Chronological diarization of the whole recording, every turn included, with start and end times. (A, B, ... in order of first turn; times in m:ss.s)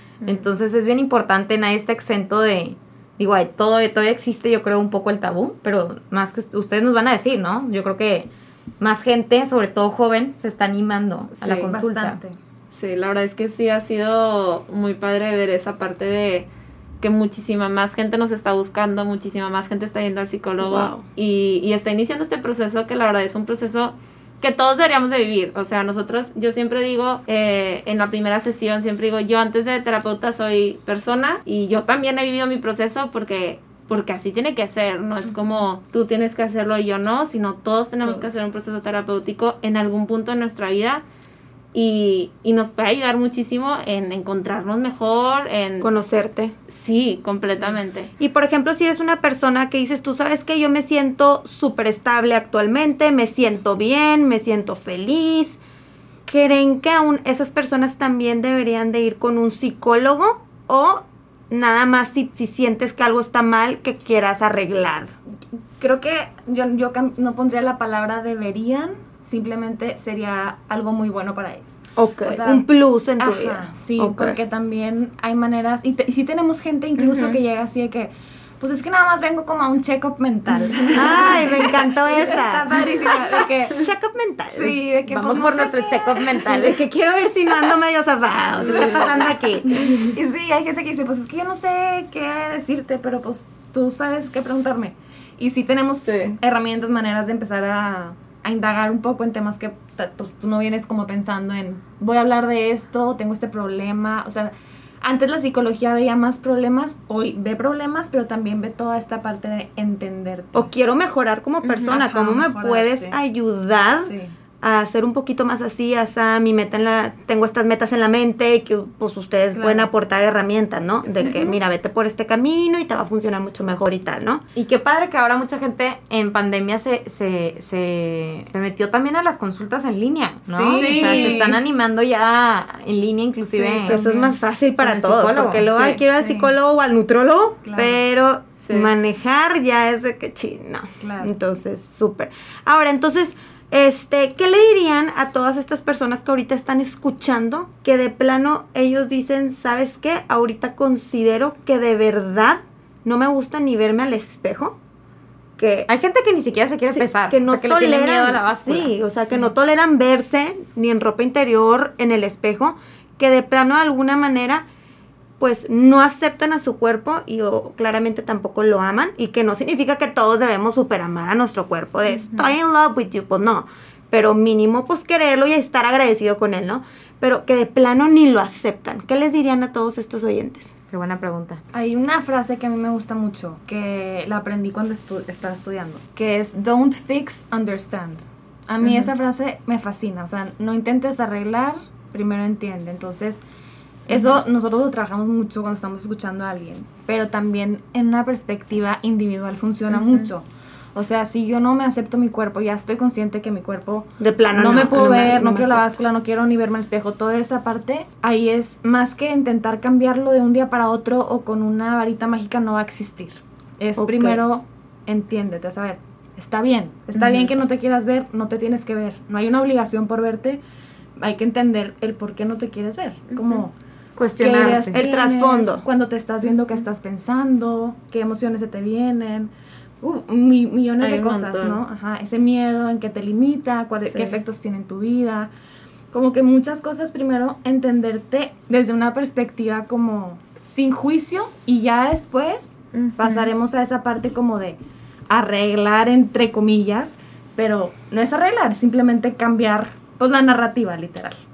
0:00.2-0:08.3 A
0:08.8-0:12.2 A
0:11.4-0:11.7 B
0:11.7-0:12.4 C
0:12.7-0:16.5 B
0:17.0-0:41.0 B
0:20.6-0:21.0 D
0:38.0-0:38.3 D
0:41.7-0:45.9 B
0:45.8-0:46.5 D
0:46.7-0:48.1 B
0:48.2-0:55.6 D
0:56.3-1:05.1 D
1:05.8-1:12.6 C
1:12.0-1:14.4 D
1:13.2-1:23.9 C
1:17.0-1:17.4 B
1:20.9-1:22.8 D
1:23.8-1:24.8 D
1:24.5-1:26.6 C
1:25.1-1:26.8 A
1:26.5-1:30.1 D
1:28.7-1:50.7 C
1:36.0-1:36.3 B
1:50.5-2:04.4 D
1:51.7-1:53.2 C
1:54.0-1:54.3 C
1:59.5-1:59.9 C
2:01.1-2:01.6 C
2:04.6-2:14.0 A
2:10.5-2:11.6 C
2:10.7-2:11.5 B
2:13.5-2:14.4 C
2:13.8-2:34.8 D
2:14.8-2:15.8 A
2:15.9-2:16.5 C
2:17.6-2:18.0 C
2:18.6-2:18.9 B
2:21.0-2:21.3 C
2:35.6-2:35.9 D
2:35.9-2:38.9 A
2:36.9-2:44.6 D
2:45.4-3:00.7 D
3:00.9-3:01.6 A
3:01.7-3:13.4 C
3:14.1-3:40.6 C
3:24.2-3:25.8 D
3:34.0-3:34.4 D
3:37.1-3:37.5 A
3:41.2-3:43.7 C
3:43.3-3:43.6 B
3:44.2-3:45.0 A
3:44.4-3:55.5 C
3:44.9-3:45.8 D
3:51.0-3:51.8 B
3:54.1-3:54.4 B
3:56.1-4:04.8 C
4:02.9-4:03.5 B
4:05.3-4:11.4 C